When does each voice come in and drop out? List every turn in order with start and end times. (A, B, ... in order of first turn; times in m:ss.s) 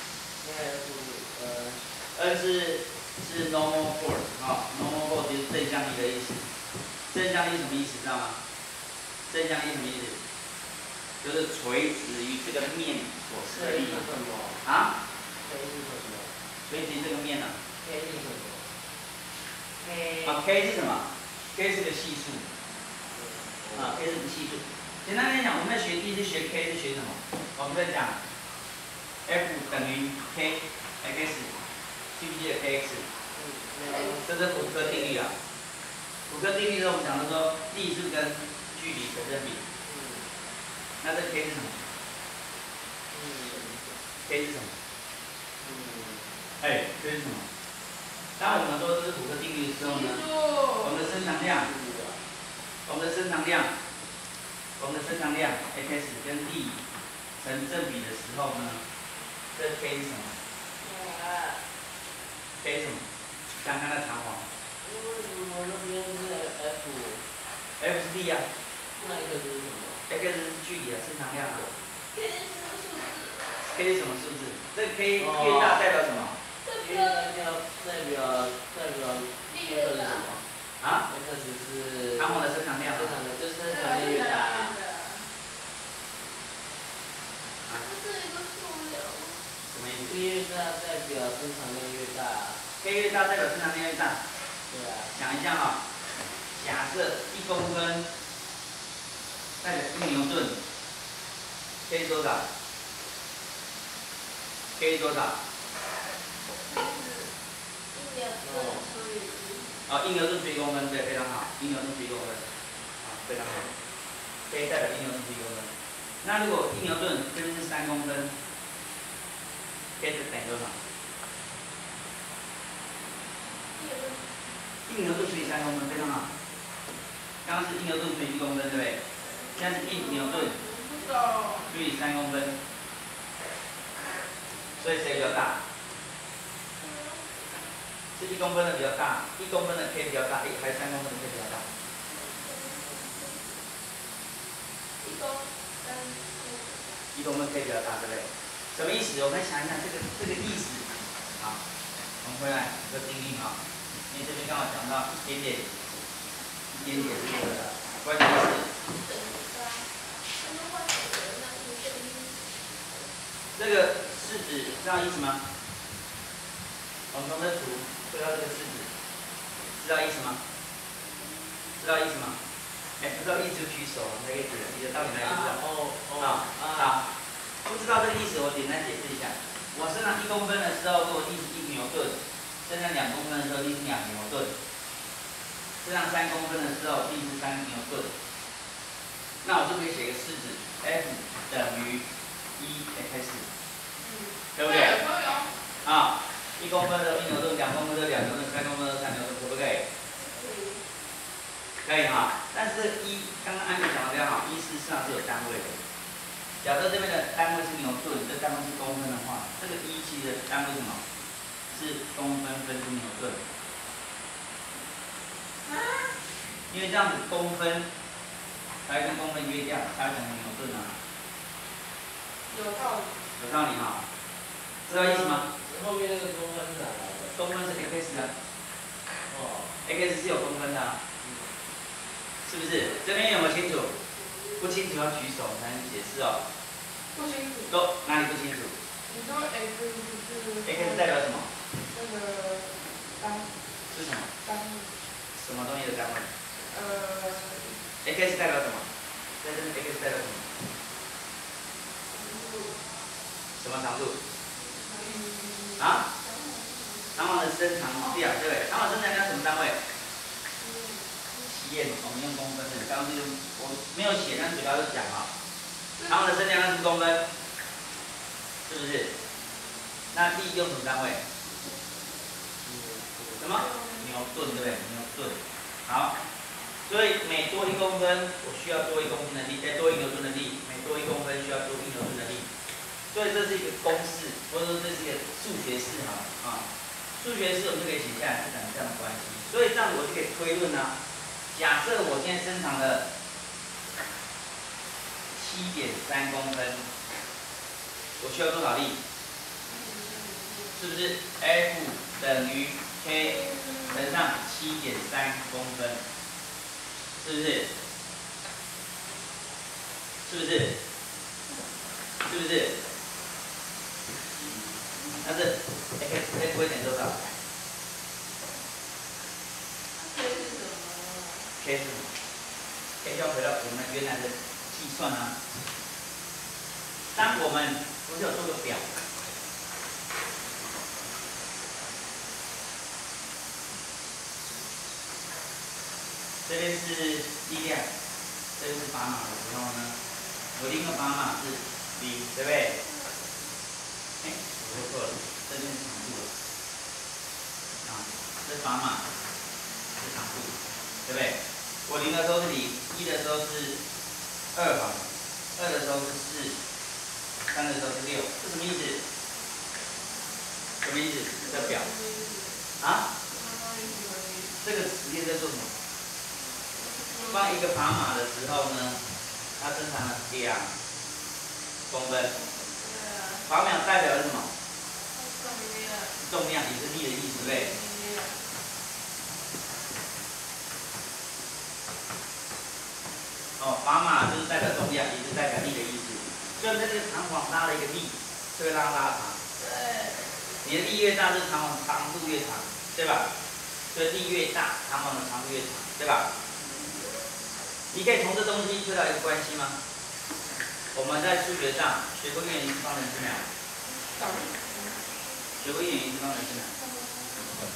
0:00.4-0:01.9 A
0:02.2-0:06.5 B
0:07.1-0:08.4 B
0:09.3-0:10.2 B
0:11.2-0:14.0 B
0:13.5-0:14.6 A
0:14.6-0:14.9 B
0:15.4-0:16.3 A
0:16.7-0:17.6 B
0:17.8-0:18.7 A
0:19.8-0:20.4 A
0:20.2-0:22.5 B
0:23.1-0:24.0 A
0:23.8-0:28.2 B
0:29.3-0:31.6 B
0:32.2-0:33.1 B
0:33.3-0:35.2 A
0:33.9-0:34.2 C
0:34.2-0:35.3 B
0:36.3-0:39.6 B
0:39.9-0:40.3 A
0:41.0-0:41.8 B
0:43.1-0:43.8 A
0:44.3-0:44.7 B
0:45.6-0:46.4 A
0:46.6-0:47.4 B
0:48.4-0:50.3 B
0:49.8-0:50.9 C
0:50.8-0:51.7 B
0:51.4-0:52.2 A
0:52.9-0:53.7 B
0:54.8-0:56.8 B
0:57.4-0:58.8 B
0:59.6-1:00.3 B
1:00.8-1:01.6 A
1:02.6-1:03.0 B
1:03.6-1:04.4 B
1:04.8-1:07.2 A
1:07.8-1:08.5 B
1:09.0-1:10.0 A
1:10.1-1:11.7 B
1:12.1-1:13.6 C
1:13.6-1:16.4 B
1:15.2-1:15.9 A
1:16.6-1:17.3 C
1:16.8-1:20.4 A
1:19.5-1:20.3 C
1:21.1-1:24.7 A
1:22.2-1:23.1 B
1:23.7-1:25.3 C
1:27.8-1:29.4 C
1:29.7-1:30.2 B
1:30.0-1:32.6 A
1:32.8-1:34.2 B
1:34.7-1:35.1 A
1:35.1-1:35.8 B
1:36.5-1:38.1 B
1:39.6-1:40.6 B
1:41.9-1:42.4 B
1:44.8-1:45.4 B
1:46.7-1:47.3 C
1:47.9-1:49.8 C
1:48.4-1:48.9 A
1:49.9-1:52.4 B
1:53.0-1:53.7 B
1:54.5-1:55.7 B
1:56.2-1:58.3 B
2:00.0-2:00.8 B
2:03.7-2:04.3 C
2:04.9-2:06.3 B
2:07.4-2:09.0 B
2:09.2-2:11.7 C
2:09.6-2:10.6 B
2:11.7-2:12.6 B
2:14.8-2:15.6 B
2:16.8-2:17.6 C
2:18.2-2:21.7 B
2:22.1-2:23.6 C
2:25.0-2:27.0 C
2:27.2-2:30.9 B
2:32.2-2:33.6 B
2:34.1-2:35.7 B
2:36.7-2:38.7 B
2:36.8-2:37.6 C
2:38.7-2:42.7 C
2:43.6-2:45.4 B
2:47.1-2:48.9 B
2:49.8-2:50.4 B
2:51.8-2:52.4 B
2:53.0-2:55.6 B
2:55.2-2:57.0 A
2:56.2-2:57.0 B
2:57.6-3:04.5 B
3:05.8-3:08.1 B
3:09.4-3:12.0 B
3:12.6-3:13.5 B
3:14.6-3:15.0 B
3:14.6-3:15.5 D
3:15.8-3:19.8 B
3:20.2-3:20.8 C
3:21.8-3:25.8 B
3:26.6-3:31.0 B
3:31.7-3:33.4 B
3:35.7-3:36.1 D
3:36.7-3:37.9 B
3:38.9-3:41.0 B
3:42.5-3:43.3 D
3:43.4-3:44.0 B
3:44.9-3:45.5 B
3:45.5-3:47.4 A
3:47.4-3:48.3 B
3:49.3-3:49.7 A
3:49.8-3:51.0 B
3:51.2-3:51.5 A
3:52.4-3:53.9 B
3:54.6-3:56.4 B
3:57.1-3:57.8 D
3:57.7-3:58.8 B
3:59.1-4:01.1 D
4:00.6-4:01.5 B
4:01.7-4:03.5 D
4:03.9-4:04.3 B
4:04.4-4:04.9 D
4:05.4-4:06.3 B
4:06.7-4:07.8 D
4:08.0-4:08.8 B
4:09.4-4:10.4 B
4:12.2-4:12.8 C
4:13.6-4:14.2 B
4:14.8-4:15.8 D
4:15.1-4:15.5 C
4:15.8-4:16.0 B
4:16.2-4:17.2 C
4:17.2-4:19.8 B
4:20.6-4:21.0 C
4:21.3-4:25.3 B
4:26.0-4:26.4 D
4:26.1-4:27.2 B
4:28.7-4:29.1 B
4:30.1-4:31.2 B
4:32.6-4:33.5 A
4:33.4-4:36.1 B
4:36.9-4:42.5 B
4:43.1-4:46.6 B
4:47.2-4:50.9 B
4:51.5-4:53.0 B
4:55.3-4:56.8 B
4:58.2-4:59.0 B
4:59.6-5:00.8 C
5:00.8-5:06.0 B
5:03.4-5:04.0 C
5:07.2-5:07.7 B
5:10.2-5:10.8 B
5:12.2-5:12.8 B
5:15.2-5:17.4 B
5:20.0-5:21.5 C
5:21.6-5:22.1 B
5:23.0-5:25.3 B
5:27.2-5:28.9 B
5:36.4-5:37.9 B
5:38.6-5:40.0 B
5:40.6-5:42.8 B
5:44.2-5:46.3 B
5:47.8-5:49.0 B
5:50.0-5:53.8 B
5:54.6-5:56.5 B
5:57.5-5:59.0 B
6:00.8-6:01.9 B
6:01.4-6:02.6 C
6:02.8-6:03.1 B
6:03.3-6:04.6 C
6:04.6-6:05.7 B
6:06.7-6:07.6 C
6:07.3-6:09.0 B
6:09.6-6:10.7 B
6:11.9-6:12.3 B
6:12.3-6:13.4 C
6:13.5-6:14.5 B
6:15.1-6:16.2 C
6:16.2-6:17.7 B
6:17.6-6:18.4 C
6:23.6-6:29.4 B
6:29.6-6:30.5 C
6:30.6-6:33.3 B
6:33.9-6:36.3 B
6:37.9-6:39.8 B
6:40.9-6:43.5 B
6:44.1-6:45.0 D
6:45.6-6:46.7 B
6:46.7-6:47.5 D